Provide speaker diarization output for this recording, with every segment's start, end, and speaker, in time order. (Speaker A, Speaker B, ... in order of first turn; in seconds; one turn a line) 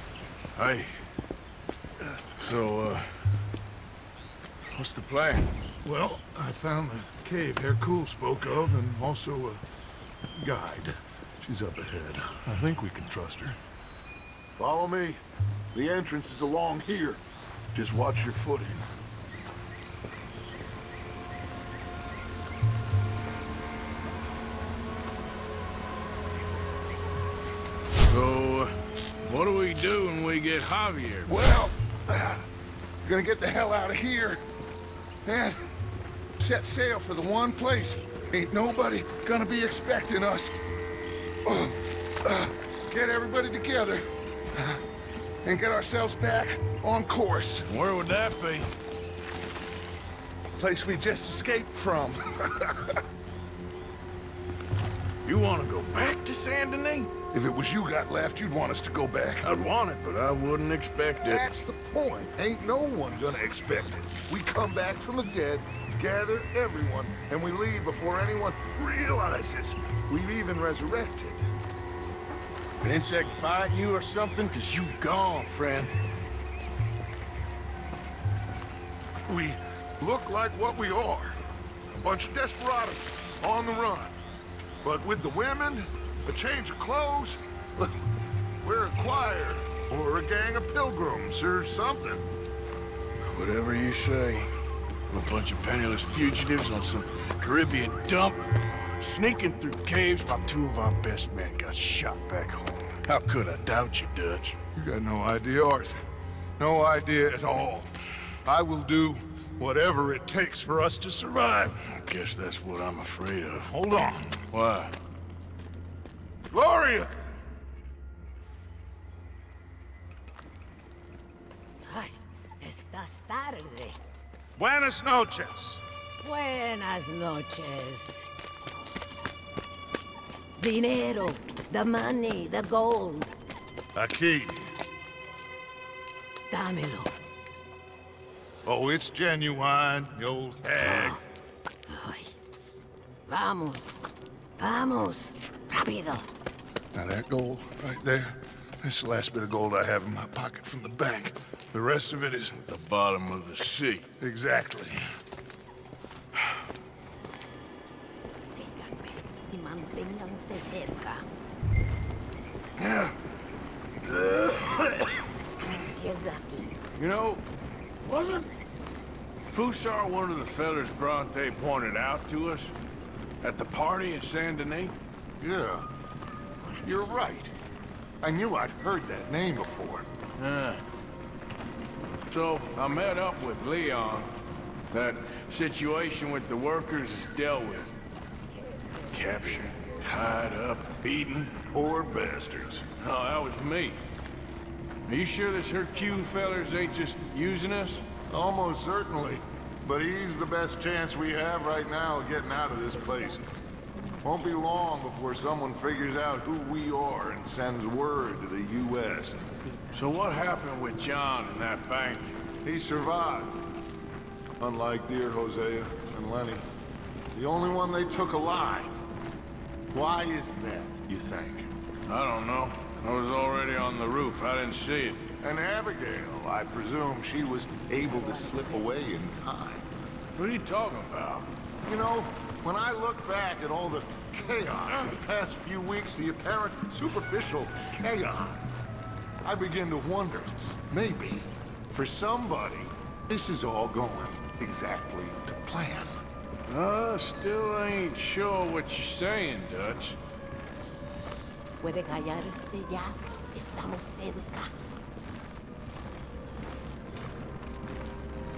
Speaker A: 0.5-1.0
Speaker A: 2.4-3.2
Speaker A: 4.7-5.5
Speaker B: 5.8-9.6
Speaker B: 10.4-13.6
Speaker B: 14.6-15.2
Speaker B: 15.7-17.2
Speaker B: 17.7-18.9
Speaker A: 28.1-31.3
Speaker B: 31.3-32.5
Speaker B: 33.0-34.4
Speaker B: 35.2-35.6
Speaker B: 36.4-40.5
Speaker B: 41.5-44.8
Speaker B: 45.4-47.7
Speaker A: 47.7-48.7
Speaker B: 50.5-53.0
Speaker A: 55.2-57.1
Speaker B: 57.3-59.5
Speaker A: 59.4-61.5
Speaker B: 61.2-71.4
Speaker A: 72.8-75.9
Speaker B: 79.2-81.4
Speaker B: 81.9-84.2
Speaker B: 84.8-88.0
Speaker B: 88.6-92.3
Speaker A: 93.2-94.5
Speaker A: 95.1-104.6
Speaker B: 104.7-106.0
Speaker B: 106.6-107.9
Speaker B: 108.4-111.8
Speaker A: 111.9-113.7
Speaker B: 113.7-114.4
Speaker A: 114.5-114.9
Speaker B: 116.5-117.1
Speaker C: 121.9-124.0
Speaker B: 124.6-125.8
Speaker C: 126.2-128.3
Speaker C: 130.6-133.3
Speaker B: 133.9-134.7
Speaker C: 136.5-137.1
Speaker B: 138.6-141.2
Speaker C: 140.8-141.2
Speaker C: 141.9-142.3
Speaker C: 143.3-144.0
Speaker C: 144.6-146.3
Speaker B: 146.9-152.6
Speaker A: 152.6-154.1
Speaker B: 154.2-155.0
Speaker C: 158.5-161.2
Speaker A: 162.8-163.2
Speaker A: 164.0-165.2
Speaker C: 165.6-166.7
Speaker A: 167.0-167.4
Speaker A: 168.1-168.5
Speaker A: 169.4-172.8
Speaker A: 173.4-174.9
Speaker B: 175.4-175.9
Speaker C: 176.7-177.0
Speaker B: 176.8-177.5
Speaker B: 178.2-180.1
Speaker A: 180.4-180.8
Speaker A: 182.3-184.3
Speaker A: 184.9-188.0
Speaker A: 189.1-191.5
Speaker B: 191.7-192.9
Speaker A: 193.0-194.0
Speaker A: 195.1-198.0
Speaker B: 198.3-203.5
Speaker B: 204.2-209.6
Speaker A: 209.9-212.3
Speaker B: 212.6-213.6
Speaker B: 214.6-216.6
Speaker B: 217.3-219.0
Speaker B: 219.9-221.7
Speaker A: 222.1-225.2
Speaker B: 225.4-229.9
Speaker A: 230.4-231.5
Speaker B: 231.8-238.9
Speaker B: 239.4-246.2
Speaker A: 246.7-250.2
Speaker C: 251.8-254.7